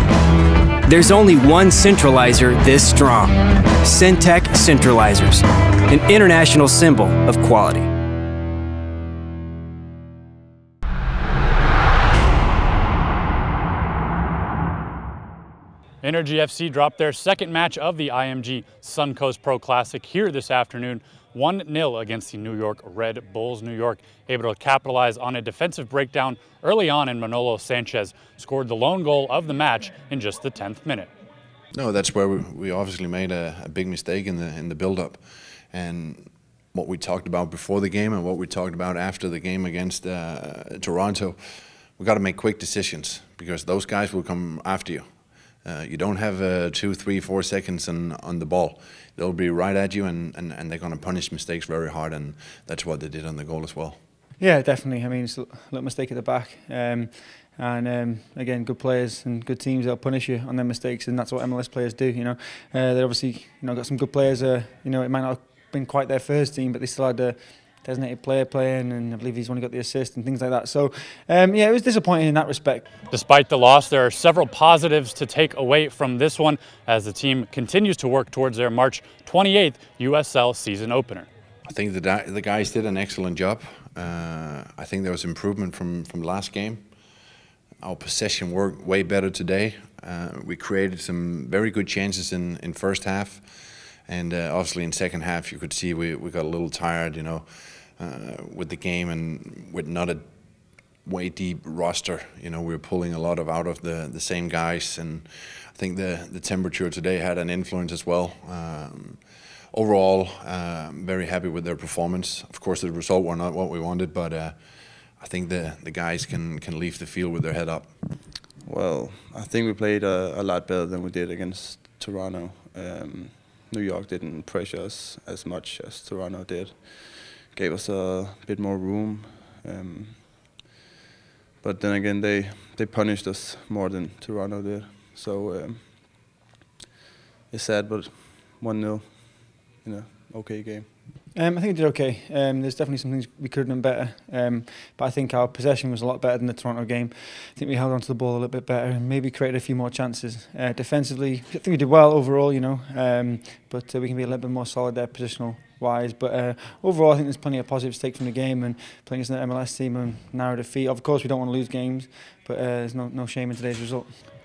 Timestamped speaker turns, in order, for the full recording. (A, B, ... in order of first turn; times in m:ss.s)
0:00.8-0:07.9 A
0:16.0-0:31.1 B
0:31.7-0:41.4 C
0:42.0-0:45.0 C
0:45.6-0:54.0 C
0:54.4-1:12.9 D
1:13.1-1:21.3 B
1:21.6-1:26.8 C
1:27.8-1:40.2 C
1:41.0-1:58.2 C
1:58.6-2:10.5 E
2:11.6-2:16.2 E
2:17.5-2:20.9 E
2:21.3-2:44.1 D